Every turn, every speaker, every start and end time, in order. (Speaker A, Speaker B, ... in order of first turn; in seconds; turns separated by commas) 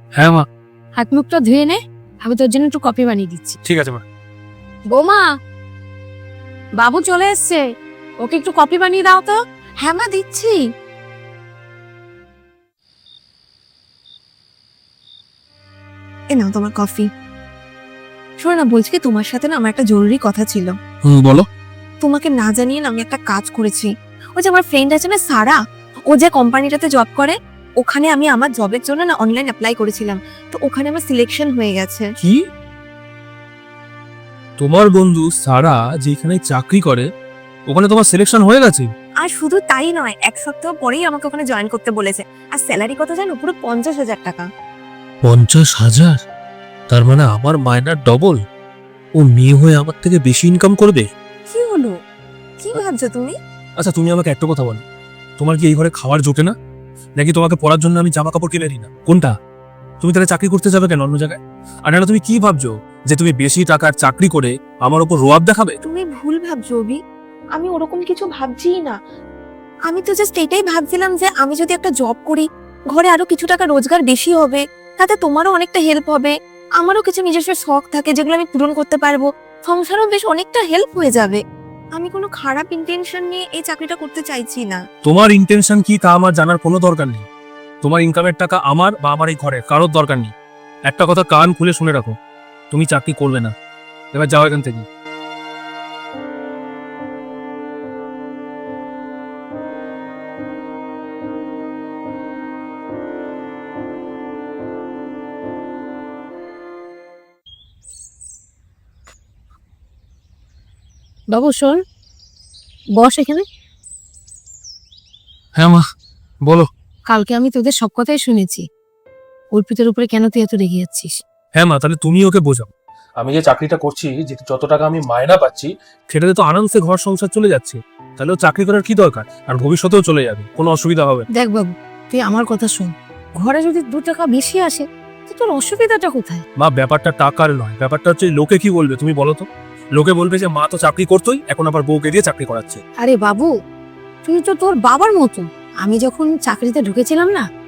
Speaker A: 0.1-0.5, Speaker B: 1.0-3.6, Speaker A: 3.6-4.0, Speaker B: 4.9-5.3, Speaker B: 6.8-7.6, Speaker B: 8.2-9.4, Speaker C: 9.8-10.6, Speaker C: 16.3-17.1, Speaker C: 18.4-20.7, Speaker A: 21.0-21.4, Speaker C: 22.0-25.6, Speaker C: 26.1-32.1, Speaker A: 34.6-37.1, Speaker A: 37.7-38.9, Speaker C: 39.2-44.5, Speaker A: 45.2-46.2, Speaker A: 46.9-48.4, Speaker A: 49.2-51.1, Speaker C: 51.5-51.9, Speaker C: 52.6-53.3, Speaker A: 53.8-54.8, Speaker A: 55.4-56.5, Speaker A: 57.2-59.3, Speaker A: 60.0-65.8, Speaker C: 65.8-67.0, Speaker C: 67.5-69.0, Speaker C: 69.9-81.4, Speaker C: 82.0-84.8, Speaker A: 85.0-87.2, Speaker A: 87.8-90.3, Speaker A: 90.9-92.1, Speaker A: 92.7-93.5, Speaker A: 94.1-94.8, Speaker B: 111.3-111.8, Speaker B: 113.0-113.5, Speaker A: 115.6-115.8, Speaker B: 117.1-118.6, Speaker B: 119.5-121.2, Speaker A: 121.6-131.2, Speaker B: 131.3-136.4, Speaker A: 136.6-139.4, Speaker A: 139.9-142.8, Speaker B: 143.0-143.5, Speaker B: 144.2-147.4